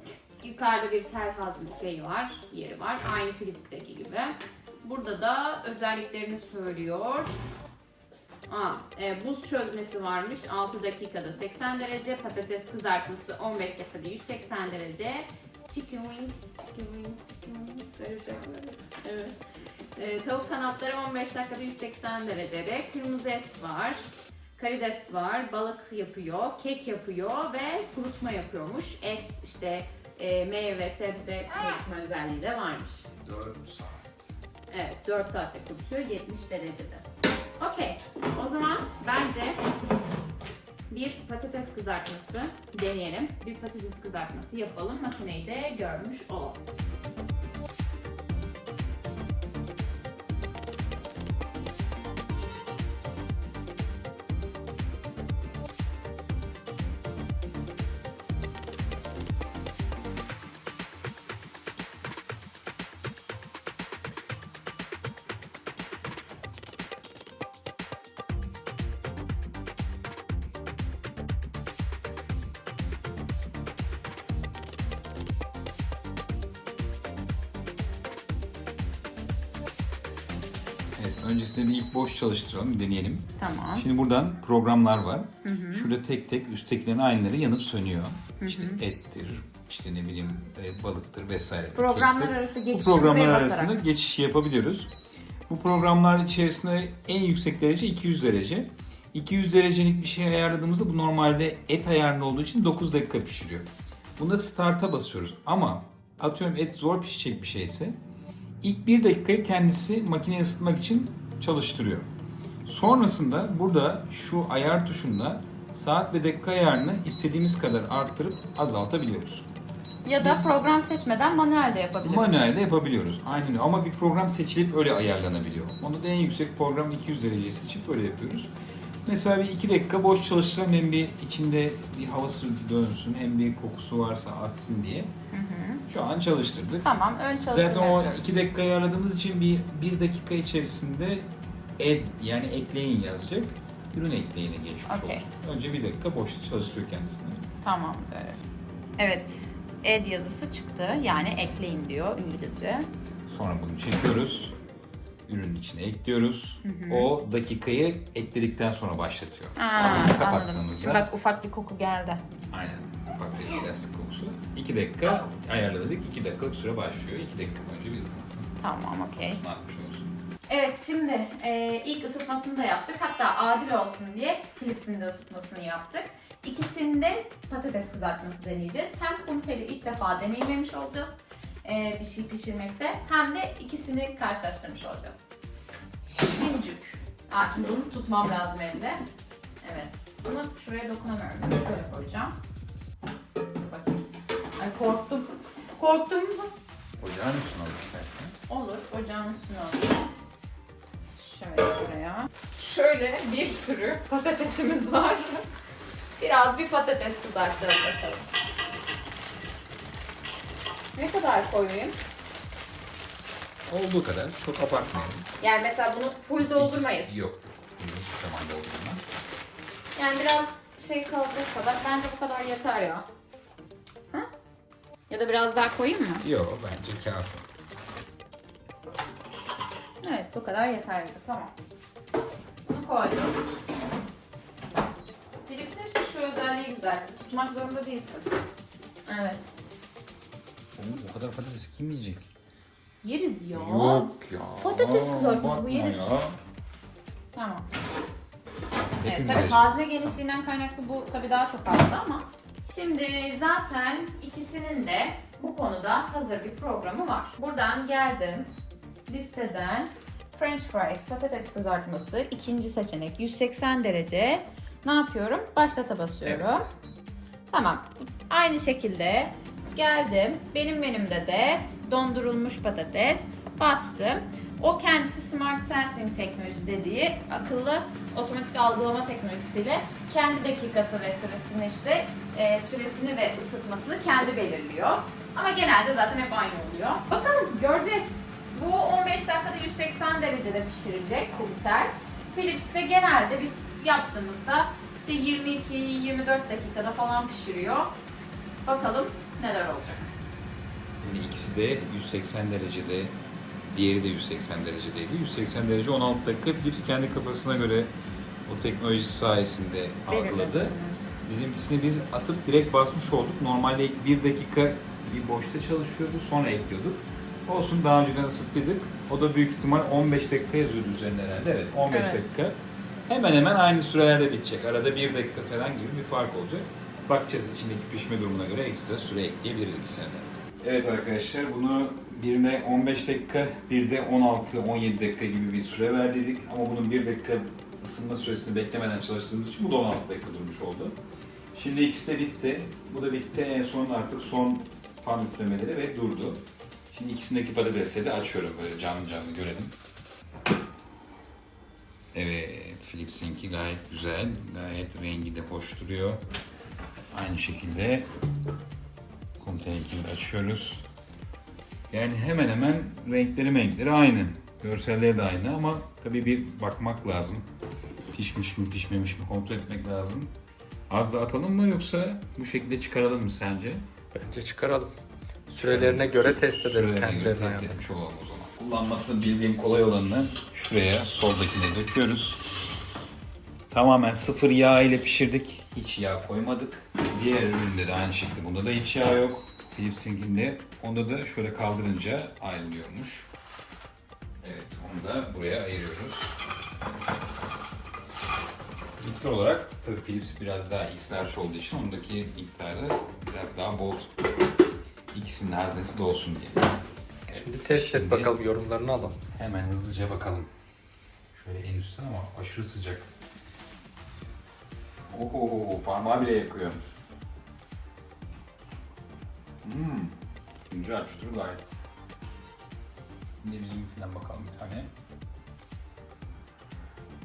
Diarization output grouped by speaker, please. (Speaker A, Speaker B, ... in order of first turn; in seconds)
Speaker A: 0.4-7.3, 8.5-19.4, 19.9-33.0, 34.7-37.0, 37.6-39.6, 40.9-46.6, 83.4-83.8, 85.4-85.9, 88.4-88.8, 91.7-93.8, 120.0-122.5, 135.3-135.8, 136.8-138.2, 144.9-145.2, 147.6-148.4, 149.0-152.9, 156.6-157.1, 159.6-162.2, 168.6-169.4, 170.5-185.3, 186.2-189.0, 189.6-192.3, 193.5-194.0, 194.6-196.5, 198.5-200.0, 201.1-205.4, 206.2-208.3, 210.9-211.9, 215.4-217.2, 219.9-223.1, 225.1-226.2, 230.0-231.5, 232.7-233.4, 235.4-238.3, 239.1-239.4, 243.0-246.1, 247.3-247.7, 249.0-258.5, 259.1-266.7, 267.5-297.9, 298.6-300.1, 310.1-311.0, 321.9-322.2
Speaker B: 33.2-34.3, 81.0-94.9, 95.5-108.0, 108.6-112.1, 112.6-119.5, 120.2-120.5, 122.0-128.5, 129.0-135.1, 135.9-136.9, 137.5-147.4, 153.3-154.5, 155.3-161.1, 162.5-168.5, 169.1-170.2, 197.0-198.3, 213.7-215.3, 216.4-219.2, 226.2-227.4, 240.8-242.3, 243.5-246.4, 249.0-250.2, 266.2-266.8, 301.0-303.1, 303.7-307.9, 308.5-310.7, 311.2-322.6, 323.1-340.9, 341.5-349.7, 352.1-356.2, 357.1-358.0, 359.4-360.9, 361.9-367.4, 368.1-370.3, 370.9-373.8, 375.5-382.4, 383.7-393.3, 394.4-396.3, 399.0-404.1, 405.1-406.7, 407.3-408.4, 409.3-410.5, 411.3-413.1, 415.1-416.8, 419.6-420.1, 420.7-421.6, 423.4-424.9
Speaker C: 374.1-374.9, 375.5-377.8, 407.3-409.2